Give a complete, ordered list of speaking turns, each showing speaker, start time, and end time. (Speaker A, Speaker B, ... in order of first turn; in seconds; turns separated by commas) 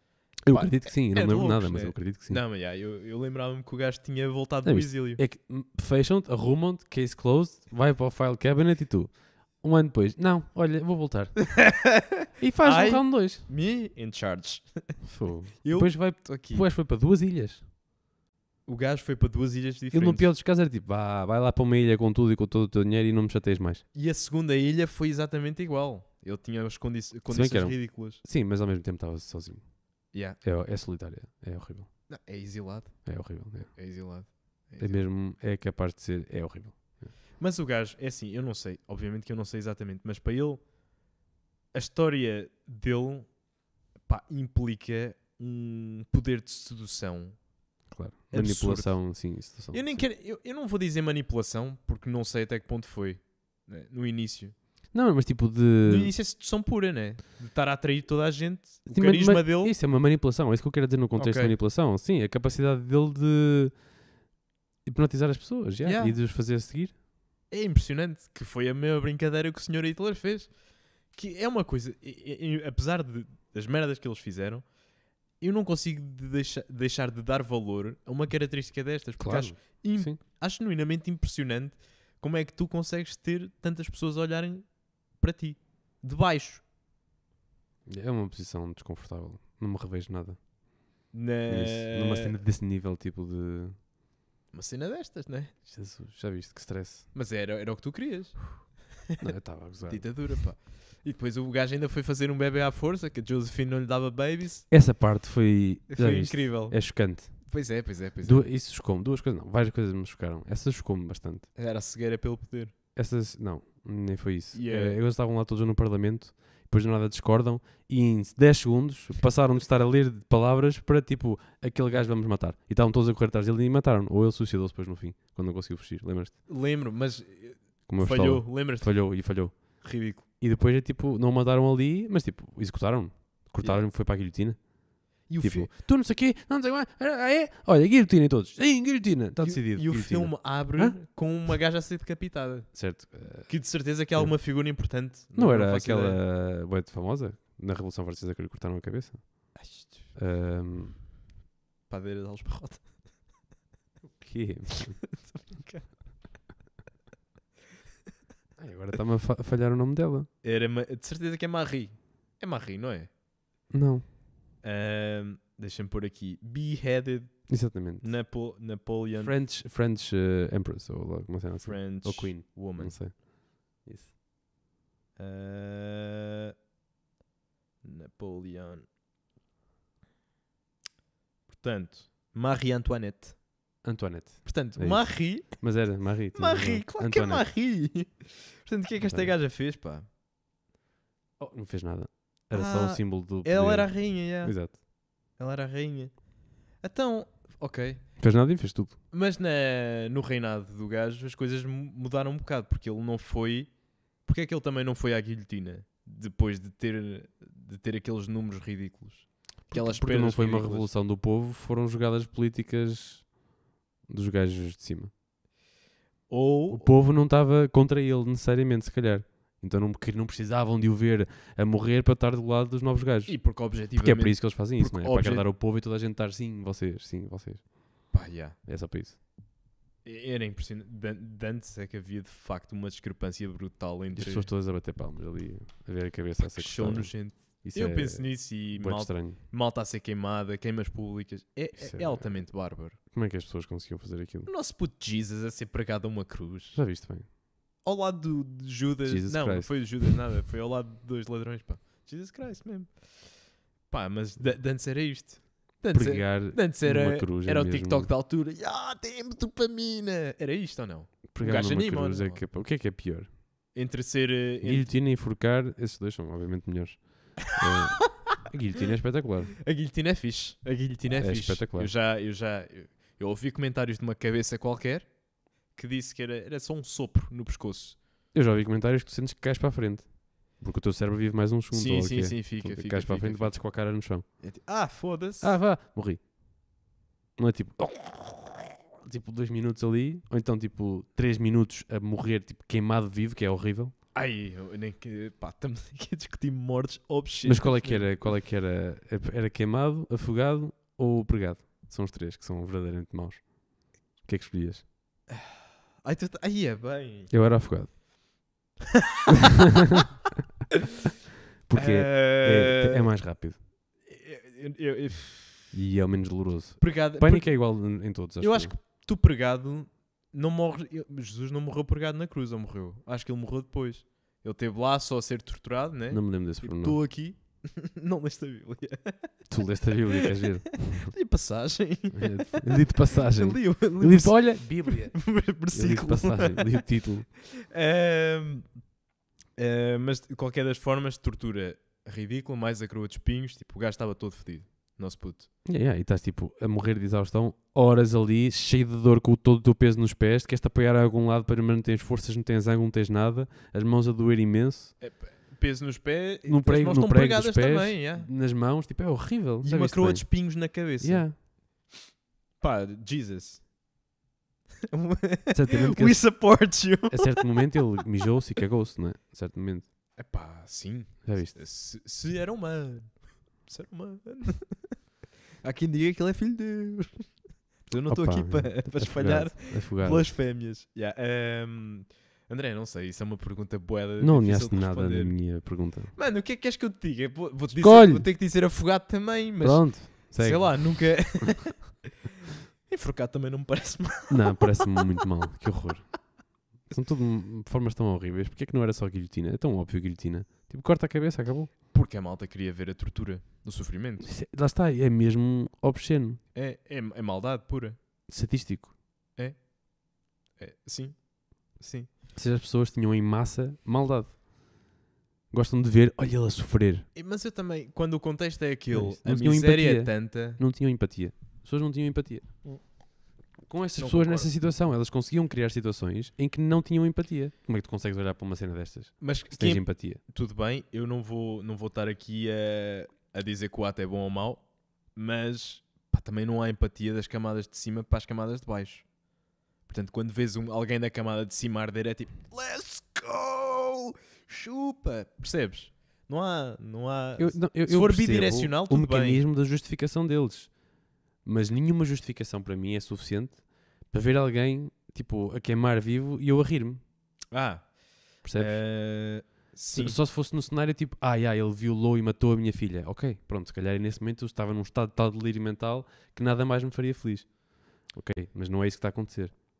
Speaker A: 0.4-2.4, Speaker B: 0.5-5.2, Speaker A: 4.6-11.8, Speaker B: 11.5-15.0, Speaker A: 12.4-13.4, Speaker A: 15.0-17.6, Speaker B: 15.6-16.6, Speaker B: 18.6-20.3, Speaker A: 19.9-23.8, Speaker B: 23.9-28.2, Speaker A: 27.3-29.7, Speaker B: 30.1-30.4, Speaker A: 30.4-31.9, Speaker B: 32.1-33.1, Speaker A: 33.0-33.7, Speaker B: 33.7-35.0, Speaker A: 34.8-37.1, Speaker B: 37.4-40.6, Speaker B: 41.7-43.3, Speaker B: 44.0-47.4, Speaker A: 47.9-50.0, Speaker B: 48.3-54.6, Speaker A: 54.9-56.1, Speaker B: 55.8-59.7, Speaker A: 58.9-63.8, Speaker B: 61.1-61.5, Speaker A: 64.8-66.9, Speaker B: 65.8-66.2, Speaker B: 67.5-70.5, Speaker B: 71.1-74.7, Speaker B: 75.4-86.6, Speaker A: 79.2-80.2, Speaker A: 87.8-90.5, Speaker B: 91.1-92.4, Speaker A: 91.5-93.8, Speaker B: 94.5-95.5, Speaker A: 95.7-97.1, Speaker B: 97.1-99.2, Speaker A: 99.2-100.4, Speaker B: 99.8-104.7, Speaker A: 104.7-107.5, Speaker B: 105.9-108.5, Speaker A: 108.2-111.5, Speaker B: 111.5-112.7, Speaker A: 112.9-126.3, Speaker B: 114.5-115.0, Speaker B: 126.5-129.1, Speaker A: 127.9-141.0, Speaker B: 129.8-130.2, Speaker B: 135.3-135.7, Speaker B: 139.4-146.2, Speaker A: 142.7-151.0, Speaker B: 149.5-150.1, Speaker B: 151.9-153.0, Speaker A: 154.2-155.1, Speaker B: 155.2-156.1, Speaker A: 158.6-160.3, Speaker B: 160.4-163.1, Speaker A: 163.7-164.0, Speaker B: 164.6-169.3, Speaker A: 167.5-168.2, Speaker A: 169.2-174.1, Speaker B: 171.6-173.0, Speaker B: 175.2-176.5, Speaker B: 177.8-178.8, Speaker B: 181.5-183.4, Speaker A: 183.8-187.5, Speaker B: 184.4-185.7, Speaker B: 186.3-190.1, Speaker A: 189.0-189.3, Speaker A: 191.4-194.8, Speaker B: 192.5-194.8, Speaker B: 195.3-196.2, Speaker B: 196.8-198.1, Speaker A: 198.2-198.9, Speaker B: 199.1-203.7, Speaker B: 204.2-210.9, Speaker A: 209.7-213.3, Speaker A: 214.1-215.1, Speaker B: 216.3-216.9, Speaker A: 216.7-228.1, Speaker B: 223.3-225.4, Speaker B: 228.1-228.6, Speaker A: 228.6-229.2, Speaker B: 230.0-234.5, Speaker A: 234.1-239.4, Speaker B: 236.4-243.0, Speaker A: 241.8-244.5, Speaker B: 244.4-246.8, Speaker A: 246.7-247.2, Speaker B: 247.8-252.9, Speaker A: 249.1-250.2, Speaker B: 253.9-262.4, Speaker A: 255.9-258.1, Speaker A: 261.3-263.3, Speaker B: 263.7-264.9, Speaker A: 264.6-269.5, Speaker B: 269.6-275.1, Speaker A: 271.1-271.9, Speaker B: 275.7-278.0, Speaker A: 278.3-284.2, Speaker B: 281.7-283.6, Speaker B: 284.4-285.6, Speaker A: 285.4-286.2, Speaker A: 287.4-293.9, Speaker B: 294.1-298.3, Speaker A: 297.4-304.9, Speaker B: 305.3-307.3, Speaker A: 307.3-308.0, Speaker A: 311.6-313.6, Speaker B: 311.7-313.1, Speaker B: 314.0-315.6, Speaker A: 315.7-318.7, Speaker B: 316.8-329.5, Speaker A: 326.1-327.0, Speaker A: 329.5-331.2, Speaker B: 330.9-337.0, Speaker A: 332.1-337.3, Speaker B: 337.6-338.8, Speaker B: 339.5-345.5, Speaker A: 345.6-354.9, Speaker B: 355.0-358.3, Speaker A: 356.4-361.4, Speaker B: 359.6-361.9, Speaker B: 362.6-363.7, Speaker B: 364.9-367.8, Speaker A: 365.5-369.9, Speaker B: 370.1-375.0, Speaker A: 371.2-371.6, Speaker B: 375.6-392.0, Speaker A: 378.1-380.4, Speaker A: 384.2-386.1, Speaker A: 387.7-388.3, Speaker A: 389.6-391.6, Speaker B: 392.9-395.0, Speaker A: 394.3-401.7, Speaker B: 401.9-404.3, Speaker A: 404.2-406.4, Speaker B: 406.5-408.0, Speaker A: 408.3-408.9, Speaker B: 409.4-409.7, Speaker B: 410.6-412.1, Speaker A: 412.3-414.4, Speaker A: 415.5-417.1, Speaker B: 417.1-420.6, Speaker A: 418.9-422.9, Speaker A: 423.6-430.2, Speaker B: 424.0-424.5, Speaker B: 429.2-439.1, Speaker B: 439.8-449.4, Speaker A: 447.4-450.9, Speaker A: 451.4-457.0, Speaker B: 457.5-460.2, Speaker A: 458.4-458.8, Speaker A: 459.9-469.5